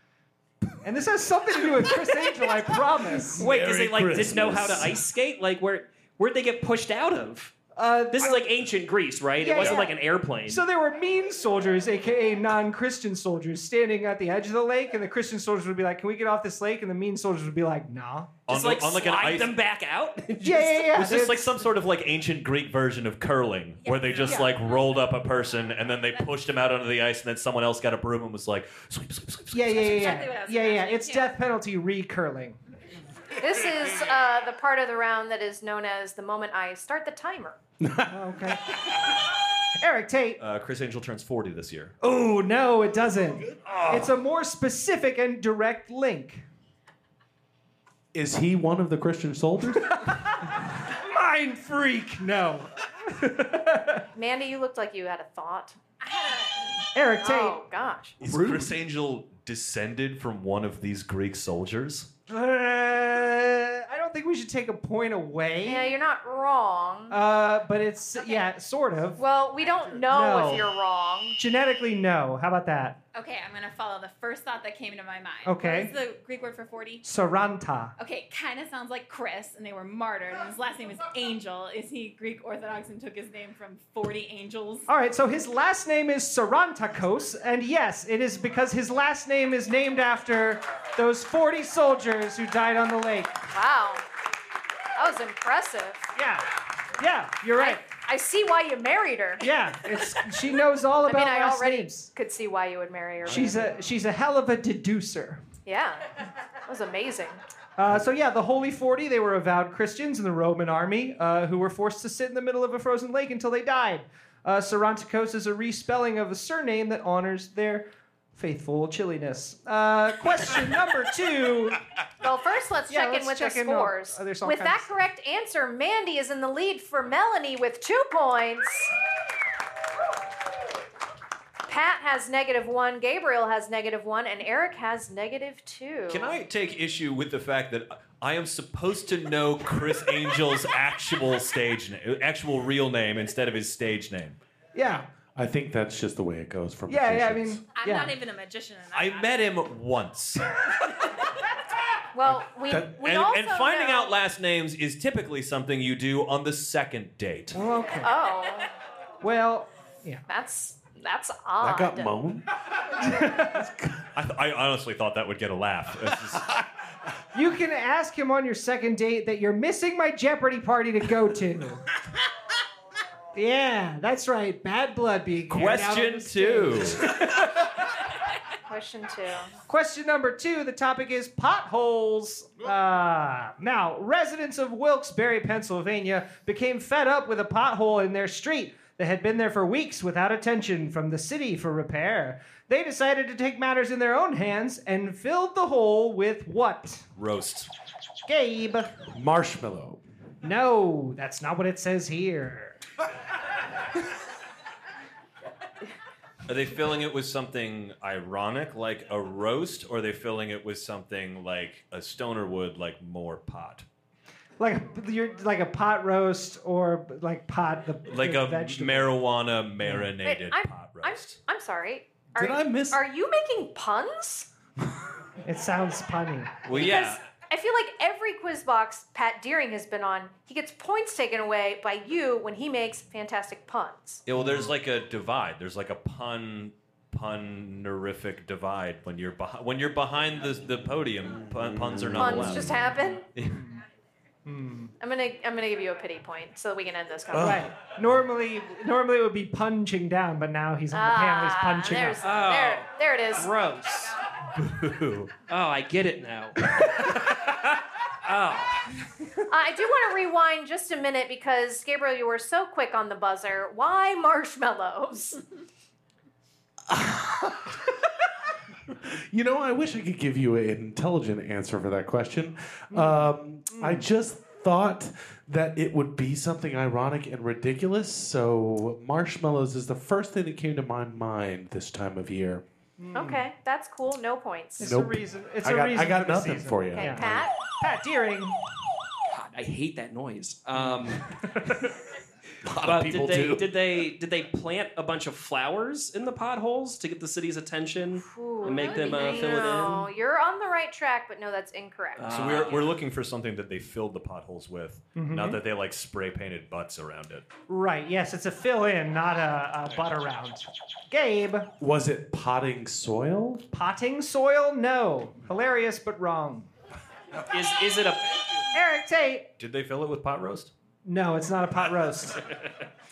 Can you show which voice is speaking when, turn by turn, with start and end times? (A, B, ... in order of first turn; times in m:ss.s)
0:00.8-0:03.5 A
0:03.4-0:05.0 B
0:03.4-0:07.5 C
0:07.8-0:08.5 A
0:08.1-0:10.6 C
0:09.4-0:18.3 A
0:18.5-0:20.9 C
0:18.5-0:19.5 D
0:20.4-0:21.7 A
0:20.9-0:30.2 D
0:23.8-0:24.9 E
0:24.2-0:24.5 A
0:29.5-0:32.6 A
0:29.7-0:31.4 E
0:33.4-0:37.6 F
0:37.8-0:38.2 B
0:38.1-0:39.0 A
0:39.8-0:40.4 A
0:40.4-0:42.0 D
0:42.0-0:46.4 A
0:43.7-0:44.0 B
0:48.1-0:50.1 B
0:50.0-0:54.0 A
0:54.1-0:55.8 F
0:56.0-0:56.8 E
0:56.9-0:57.6 A
0:57.2-0:58.2 F
0:58.2-1:02.1 D
0:58.2-0:58.7 B
1:02.3-1:05.9 A
1:05.6-1:07.2 F
1:07.1-1:09.2 A
1:09.2-1:11.4 F
1:10.1-1:10.7 A
1:11.4-1:13.0 A
1:13.1-1:17.0 E
1:15.4-1:15.9 A
1:17.0-1:17.9 A
1:18.0-1:24.9 E
1:24.9-1:33.4 A
1:33.5-1:34.0 F
1:35.0-1:36.1 F
1:36.2-1:36.5 A
1:37.0-1:37.8 A
1:37.6-1:39.5 F
1:39.4-1:42.1 A
1:41.1-1:43.6 F
1:43.3-1:45.4 A
1:45.7-1:46.1 F
1:46.6-1:47.4 F
1:47.8-2:01.8 A
2:02.2-2:09.0 F
2:02.9-2:04.9 A
2:11.7-2:16.4 F
2:16.1-2:24.4 D
2:24.8-2:25.1 A
2:25.4-2:27.6 B
2:26.9-2:28.1 A
2:27.8-2:29.4 E
2:28.9-2:30.6 D
2:32.1-2:34.2 F
2:32.9-2:37.6 D
2:37.5-2:38.1 A
2:38.0-2:38.7 F
2:39.2-2:40.2 A
2:40.3-2:42.1 F
2:41.6-2:42.5 B
2:43.0-2:43.6 A
2:43.1-2:44.1 B
2:44.2-2:46.5 D
2:47.3-2:51.8 A
2:53.4-2:57.7 A
2:55.5-2:57.1 D
2:58.7-2:59.5 F
2:59.7-3:17.1 A
3:17.2-3:17.7 D
3:18.3-3:19.0 A
3:19.1-3:20.0 B
3:20.4-3:22.8 A
3:26.5-3:33.9 D
3:34.6-3:39.2 A
3:38.1-3:41.4 D
3:39.8-3:40.1 A
3:40.2-3:44.5 F
3:42.4-3:43.0 B
3:45.4-3:46.6 A
3:46.7-3:47.2 D
3:46.7-3:54.2 F
3:54.3-4:02.8 D
4:01.3-4:02.8 B
4:02.2-4:03.3 F
4:03.4-4:03.6 D
4:03.4-4:03.8 A
4:04.5-4:04.9 A
4:05.0-4:07.6 F
4:07.3-4:07.7 B
4:07.4-4:12.2 A
4:10.9-4:13.5 F
4:12.2-4:14.2 C
4:14.6-4:15.3 D
4:15.4-4:18.8 C
4:19.5-4:25.4 F
4:26.9-4:27.8 B
4:29.0-4:42.6 B
4:32.9-4:34.1 A
4:43.0-4:43.5 A
4:43.1-4:44.9 F
4:44.8-4:47.2 A
4:44.8-4:47.5 B
4:47.0-4:47.5 F
4:47.8-4:48.6 A
4:49.3-4:51.3 C
4:52.6-4:53.7 B
4:52.8-5:00.1 C
4:58.3-5:02.6 F
5:02.2-5:02.9 C
5:02.3-5:07.5 D
5:05.2-5:05.6 A
5:07.7-5:11.7 A
5:11.8-5:13.6 B
5:13.7-5:16.7 A
5:17.4-5:18.4 C
5:18.7-5:19.5 A
5:19.6-5:20.7 D
5:21.0-5:22.5 A